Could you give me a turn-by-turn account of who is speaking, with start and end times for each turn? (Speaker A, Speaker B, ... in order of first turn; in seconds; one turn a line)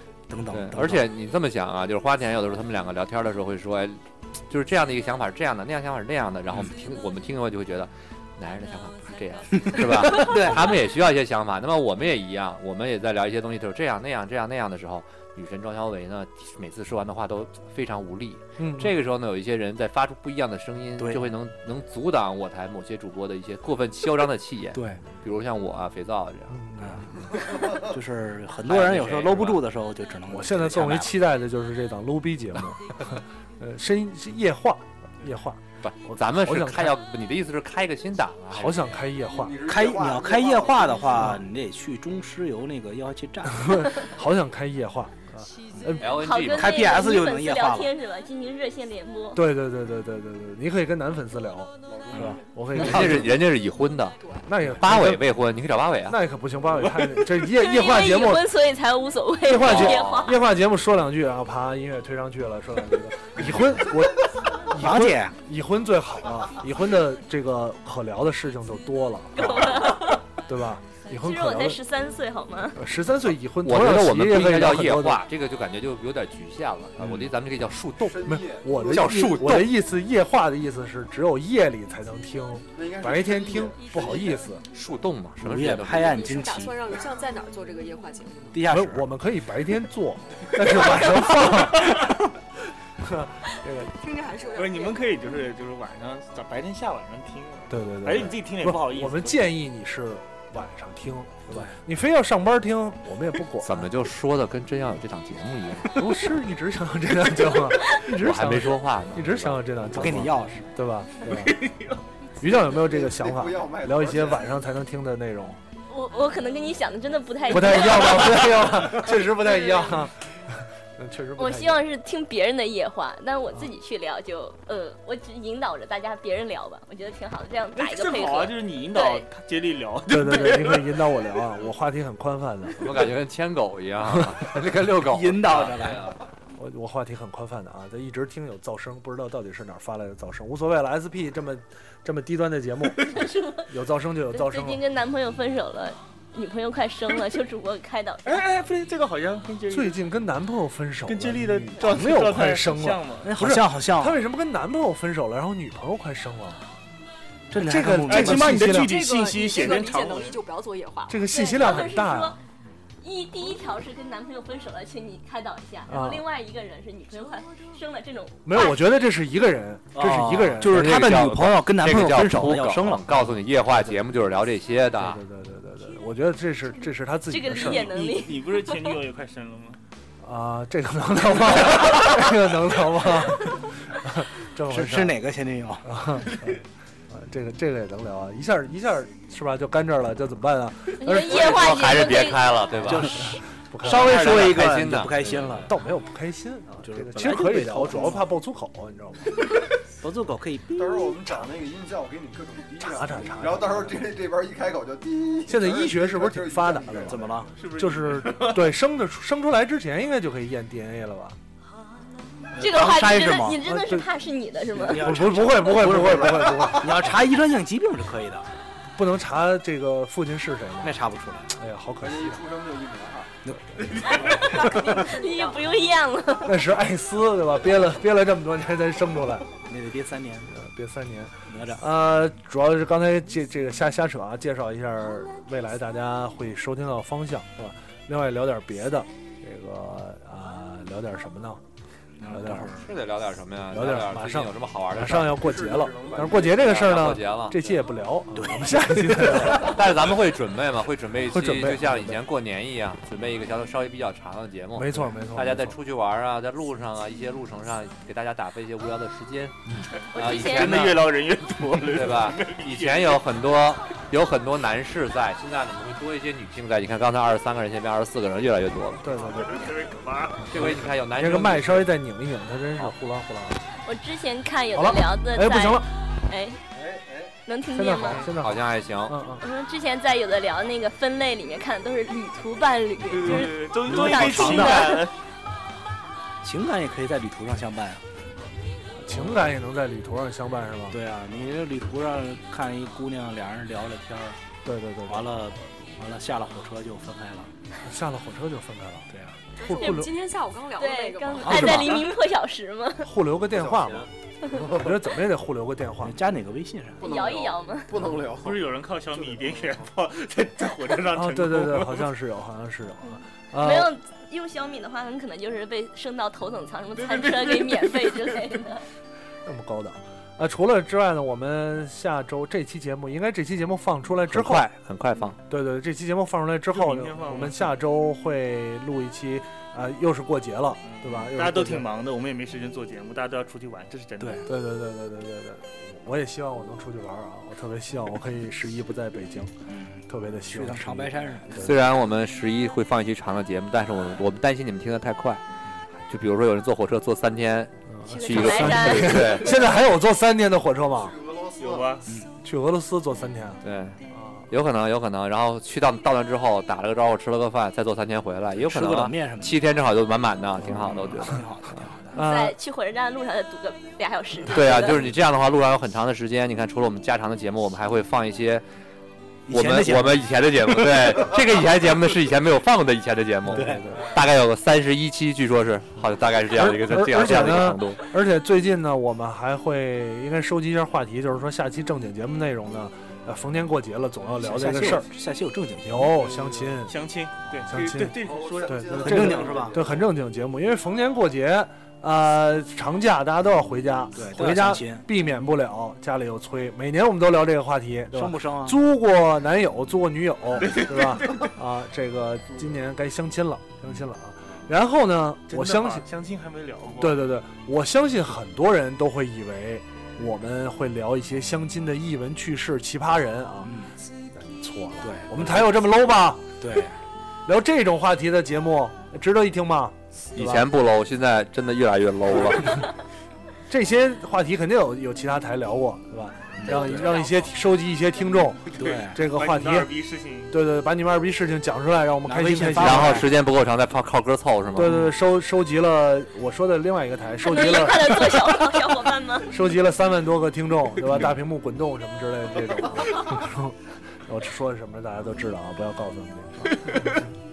Speaker A: 0.3-1.1
Speaker B: 0.5-26.6
Speaker A: 9.6-10.7
Speaker C: 18.6-18.9
Speaker A: 21.0-21.3
Speaker A: 24.7-25.1
Speaker C: 26.5-27.2
Speaker A: 26.8-31.1
Speaker B: 28.7-29.6
Speaker C: 30.3-37.0
Speaker B: 35.8-39.0
Speaker C: 38.5-39.6
Speaker D: 39.3-41.4
Speaker A: 39.6-44.0
Speaker C: 43.5-46.1
Speaker B: 46.0-46.9
Speaker E: 46.1-49.4
Speaker A: 46.5-47.9
Speaker C: 49.4-53.4
Speaker D: 51.9-52.4
Speaker B: 52.8-54.2
Speaker C: 54.5-55.3
Speaker B: 54.7-56.2
Speaker C: 56.1-58.5
Speaker E: 57.4-60.4
Speaker C: 59.4-71.8
Speaker B: 59.6-60.3
Speaker A: 64.8-65.4
Speaker E: 69.3-70.2
Speaker E: 71.1-72.8
Speaker C: 72.8-75.2
Speaker B: 73.6-78.4
Speaker D: 78.0-79.4
Speaker C: 78.2-84.6
Speaker B: 78.9-79.7
Speaker D: 82.8-84.4
Speaker B: 84.7-86.2
Speaker A: 85.4-86.9
Speaker F: 85.9-88.6
Speaker A: 88.5-89.1
Speaker C: 88.7-92.2
Speaker C: 93.0-93.9
Speaker F: 93.9-95.1
Speaker G: 94.5-99.5
Speaker C: 97.7-103.9
Speaker A: 101.5-101.8
Speaker B: 103.6-106.0
Speaker C: 105.9-111.6
Speaker B: 108.0-109.9
Speaker A: 109.9-110.7
Speaker G: 111.3-112.0
Speaker C: 112.4-115.6
Speaker D: 112.7-114.5
Speaker E: 115.9-118.9
Speaker C: 117.5-121.8
Speaker E: 119.4-119.9
Speaker E: 121.4-129.3
Speaker G: 127.8-131.0
Speaker C: 130.1-133.1
Speaker B: 132.8-136.2
Speaker C: 134.1-134.5
Speaker A: 135.0-136.1
Speaker C: 136.6-144.8
Speaker E: 143.1-143.7
Speaker E: 144.3-148.4
Speaker G: 148.2-150.0
Speaker C: 149.7-156.6
Speaker G: 151.1-153.3
Speaker A: 153.2-154.2
Speaker A: 157.5-159.3
Speaker C: 157.6-158.9
Speaker G: 158.1-160.4
Speaker F: 158.7-161.3
Speaker C: 161.1-162.4
Speaker E: 161.3-162.4
Speaker E: 163.0-168.9
Speaker C: 165.9-166.2
Speaker C: 168.4-171.0
Speaker A: 169.9-173.1
Speaker B: 170.6-175.2
Speaker C: 173.7-174.1
Speaker C: 174.9-177.9
Speaker E: 177.3-178.9
Speaker G: 177.5-179.8
Speaker C: 180.2-185.2
Speaker A: 184.7-186.0
Speaker C: 185.8-192.0
Speaker E: 191.0-192.6
Speaker B: 191.2-195.5
Speaker C: 192.8-194.5
Speaker A: 192.8-195.7
Speaker C: 195.6-199.4
Speaker A: 196.8-198.2
Speaker A: 200.0-201.2
Speaker D: 200.7-207.4
Speaker C: 202.8-204.0
Speaker C: 205.5-211.4
Speaker A: 207.1-207.5
Speaker G: 207.5-208.7
Speaker A: 212.5-213.6
Speaker E: 212.6-215.1
Speaker C: 213.6-214.1
Speaker A: 214.7-218.5
Speaker C: 215.0-217.1
Speaker D: 216.0-216.6
Speaker C: 218.9-221.0
Speaker A: 220.8-221.5
Speaker C: 221.5-222.4
Speaker D: 222.0-223.4
Speaker A: 223.4-224.1
Speaker C: 223.8-224.0
Speaker E: 224.1-226.6
Speaker F: 224.2-225.7
Speaker C: 226.4-229.5
Speaker A: 229.7-230.5
Speaker C: 230.5-241.6
Speaker A: 231.5-231.8
Speaker A: 242.2-242.9
Speaker C: 242.3-242.7
Speaker B: 242.8-245.4
Speaker C: 243.7-249.9
Speaker D: 245.4-246.8
Speaker B: 246.5-247.6
Speaker A: 248.4-249.6
Speaker B: 249.5-261.1
Speaker C: 251.3-252.2
Speaker C: 254.8-255.8
Speaker E: 260.1-260.9
Speaker G: 260.3-263.2
Speaker B: 261.9-269.1
Speaker C: 269.0-269.7
Speaker G: 269.2-270.6
Speaker B: 270.5-271.9
Speaker C: 270.5-273.6
Speaker E: 273.9-276.6
Speaker C: 274.7-275.9
Speaker D: 276.8-277.3
Speaker E: 277.5-278.3
Speaker C: 277.7-279.4
Speaker B: 278.4-279.2
Speaker E: 279.4-285.0
Speaker G: 283.1-285.1
Speaker A: 283.3-285.0
Speaker A: 286.4-288.0
Speaker C: 289.0-291.0
Speaker A: 289.1-289.5
Speaker A: 290.9-294.4
Speaker C: 294.6-295.4
Speaker A: 295.1-297.5
Speaker C: 297.8-300.1
Speaker A: 299.1-299.4
Speaker F: 299.5-301.8
Speaker E: 300.8-303.1
Speaker A: 301.4-302.1
Speaker C: 301.5-301.9
Speaker C: 303.0-306.2
Speaker D: 303.5-304.9
Speaker A: 306.0-307.0
Speaker D: 307.0-308.7
Speaker E: 307.0-307.9
Speaker G: 308.3-312.1
Speaker C: 311.1-313.9
Speaker E: 313.6-318.8
Speaker G: 317.0-318.4
Speaker C: 319.4-324.7
Speaker B: 324.3-325.4
Speaker C: 325.5-331.9
Speaker G: 326.7-327.7
Speaker G: 330.8-334.5
Speaker A: 334.2-334.5
Speaker C: 334.4-339.6
Speaker A: 339.7-341.7
Speaker C: 340.1-341.8
Speaker B: 341.6-345.4
Speaker B: 346.1-349.6
Speaker C: 347.9-351.1
Speaker E: 348.1-349.4
Speaker D: 350.9-352.0
Speaker G: 351.6-352.1
Speaker C: 352.4-354.5
Speaker B: 353.6-354.0
Speaker B: 354.5-361.4
Speaker A: 358.6-359.6
Speaker A: 360.7-362.2
Speaker C: 362.1-362.6
Speaker E: 362.2-365.0
Speaker B: 364.5-368.6
Speaker A: 369.5-371.3
Speaker B: 369.5-378.0
Speaker C: 373.5-374.1
Speaker A: 373.5-373.9
Speaker C: 376.6-385.1
Speaker A: 384.4-386.3
Speaker C: 385.9-387.0
Speaker G: 386.9-389.2
Speaker C: 387.6-406.1
Speaker D: 388.1-390.1
Speaker A: 389.0-389.9
Speaker A: 394.2-395.1
Speaker A: 398.1-398.8
Speaker G: 400.6-401.5
Speaker G: 405.5-407.2
Speaker C: 407.0-413.8
Speaker A: 413.6-413.9
Speaker C: 414.4-416.6
Speaker A: 415.0-415.7
Speaker A: 416.6-416.9
Speaker C: 417.5-420.7
Speaker B: 420.4-422.8
Speaker C: 422.4-422.6
Speaker C: 423.7-429.9
Speaker A: 426.6-427.1
Speaker A: 428.8-429.2
Speaker G: 428.8-430.5
Speaker C: 430.5-433.3
Speaker A: 432.2-433.3
Speaker B: 432.8-435.0
Speaker C: 434.8-438.9
Speaker A: 434.9-435.1
Speaker E: 437.4-439.5
Speaker C: 439.5-447.3